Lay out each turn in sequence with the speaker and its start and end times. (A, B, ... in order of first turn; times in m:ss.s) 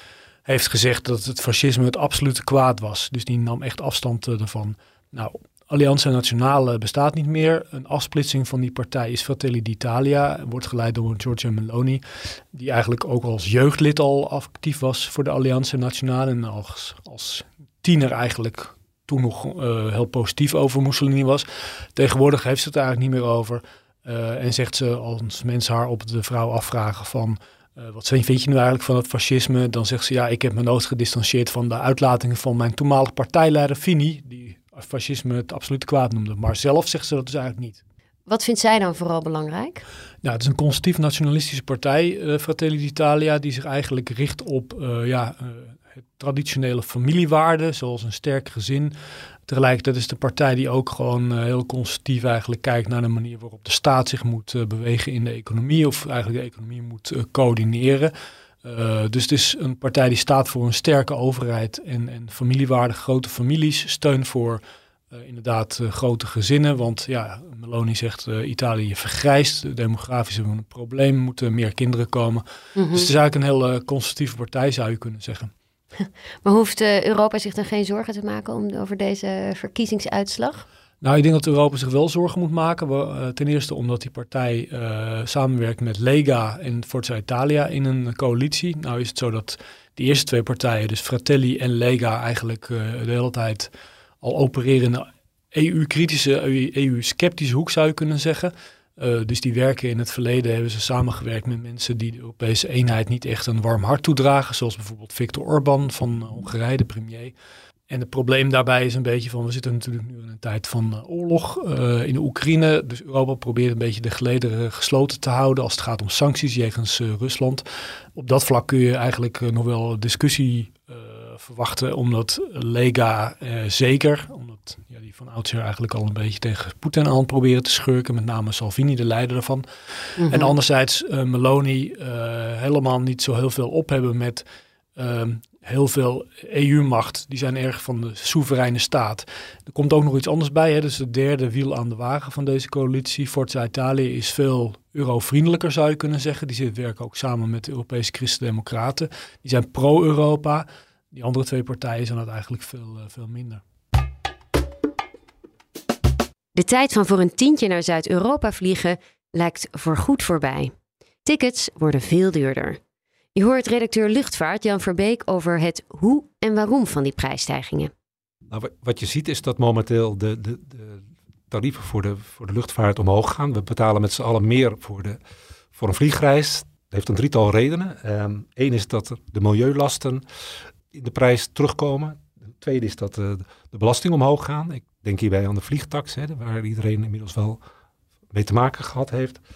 0:00.4-0:37.8 A
0:38.3-0:39.8 B
0:40.2-0:48.9 A
0:49.4-0:58.1 A
0:58.6-1:15.5 A
1:12.8-1:13.0 B
1:16.0-1:20.6 B
1:21.0-1:47.3 A
1:47.9-2:09.6 A
2:10.2-2:14.4 A
2:10.2-2:10.5 B
2:15.0-2:33.6 A
2:36.5-2:40.7 B
2:41.2-2:42.8 B
2:43.3-2:47.9 B
2:48.5-2:55.2 C
2:55.7-3:00.2 C
3:00.9-3:07.6 C
3:08.3-3:09.4 C